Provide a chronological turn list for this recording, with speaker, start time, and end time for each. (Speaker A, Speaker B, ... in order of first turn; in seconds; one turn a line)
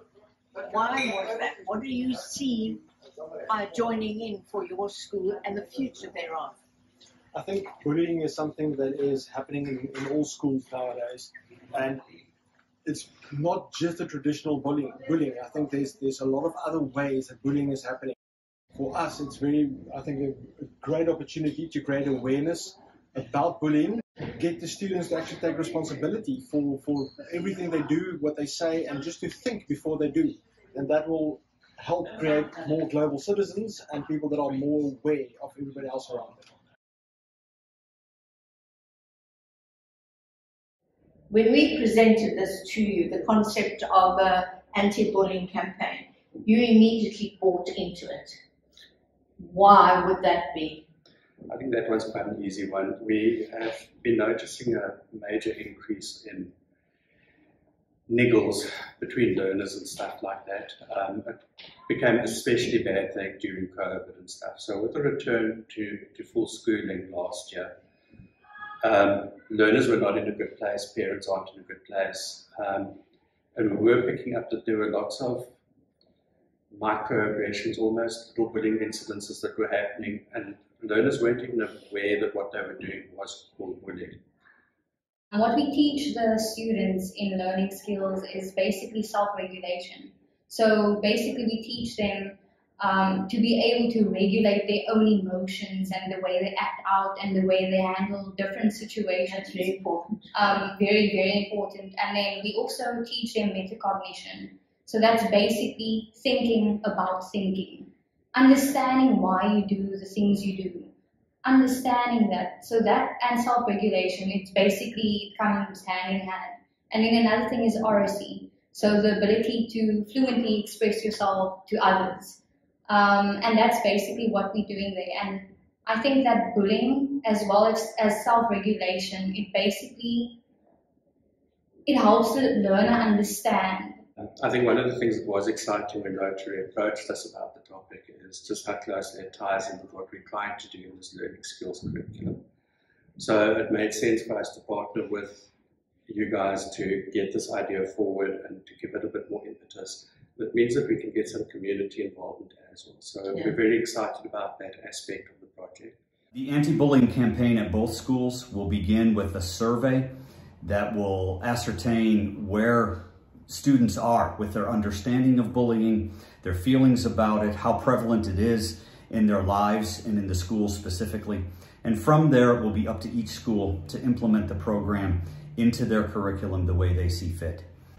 Speaker A: 0.5-2.8
Speaker A: 3.5-6.6
Speaker B: 7.3-12.0
Speaker B: 12.8-18.1
Speaker B: 18.7-36.5
Speaker A: 41.3-48.4
Speaker A: 49.4-50.9
Speaker C: 51.5-56.5
Speaker C: 58.1-67.7
Speaker C: 68.8-73.0
Speaker C: 73.5-75.5
Speaker C: 76.7-84.2
Speaker D: 85.3-99.7
Speaker A: 99.2-100.3
Speaker D: 100.3-110.9
Speaker D: 111.4-130.4
Speaker D: 131.8-134.0
Speaker C: 134.2-142.4
Speaker C: 143.2-145.5
Speaker C: 146.1-155.9
Speaker A: 153.3-153.6
Speaker E: 156.3-177.7